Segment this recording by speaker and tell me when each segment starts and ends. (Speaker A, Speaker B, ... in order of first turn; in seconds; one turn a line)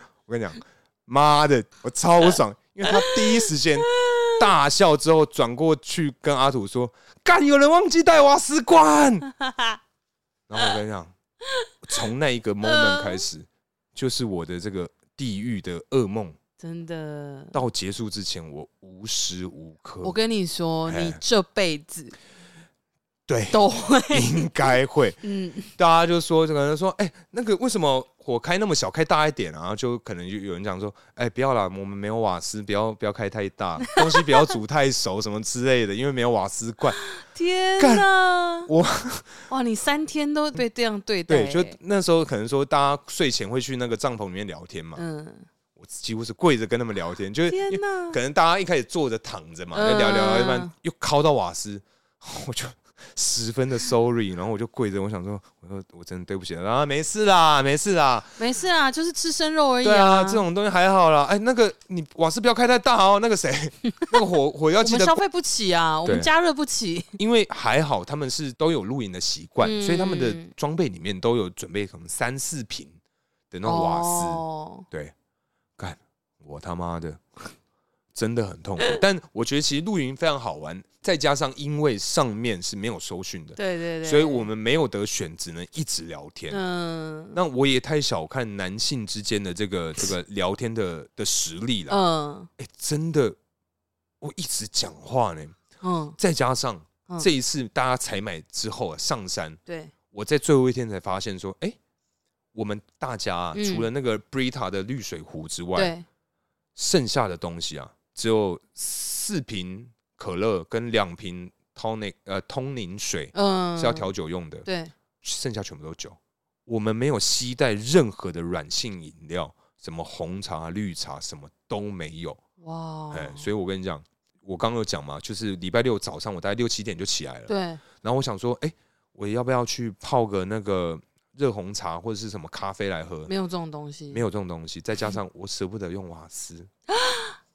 Speaker A: 0.3-9.3
Speaker B: 2.9-4.5
Speaker B: 9.4-9.8
Speaker A: 10.5-11.1
Speaker A: 11.8-16.4
Speaker B: 12.6-13.3
Speaker B: 16.6-17.6
Speaker A: 17.5-20.1
Speaker B: 20.0-22.2
Speaker A: 20.9-21.2
Speaker A: 23.3-25.2
Speaker B: 23.5-25.7
Speaker A: 25.8-37.0
Speaker B: 33.8-34.5
Speaker B: 37.1-38.7
Speaker A: 37.8-38.1
Speaker A: 38.7-39.5
Speaker B: 39.5-41.8
Speaker A: 41.3-45.0
Speaker B: 45.0-45.5
Speaker A: 45.8-58.4
Speaker B: 47.5-48.2
Speaker B: 49.7-50.7
Speaker B: 58.4-60.4
Speaker A: 59.8-65.2
Speaker B: 64.8-67.2
Speaker A: 67.2-73.0
Speaker B: 69.6-70.5
Speaker A: 73.5-75.1
Speaker B: 73.7-74.9
Speaker A: 75.8-77.2
Speaker A: 78.2-86.6
Speaker B: 83.6-84.5
Speaker B: 86.5-87.4
Speaker A: 87.3-92.0
Speaker B: 91.9-92.5
Speaker A: 92.6-93.4
Speaker A: 94.2-95.6
Speaker B: 95.8-96.2
Speaker A: 96.2-99.6
Speaker B: 99.7-99.9
Speaker A: 100.1-101.8
Speaker A: 102.5-105.9
Speaker B: 103.5-103.9
Speaker B: 105.8-106.0
Speaker A: 106.8-114.7
Speaker B: 113.3-114.1
Speaker B: 114.7-114.9
Speaker A: 115.2-122.4
Speaker B: 122.6-123.5
Speaker A: 123.1-133.3
Speaker B: 127.5-127.8
Speaker B: 133.3-134.2
Speaker A: 134.1-136.7
Speaker B: 136.9-137.4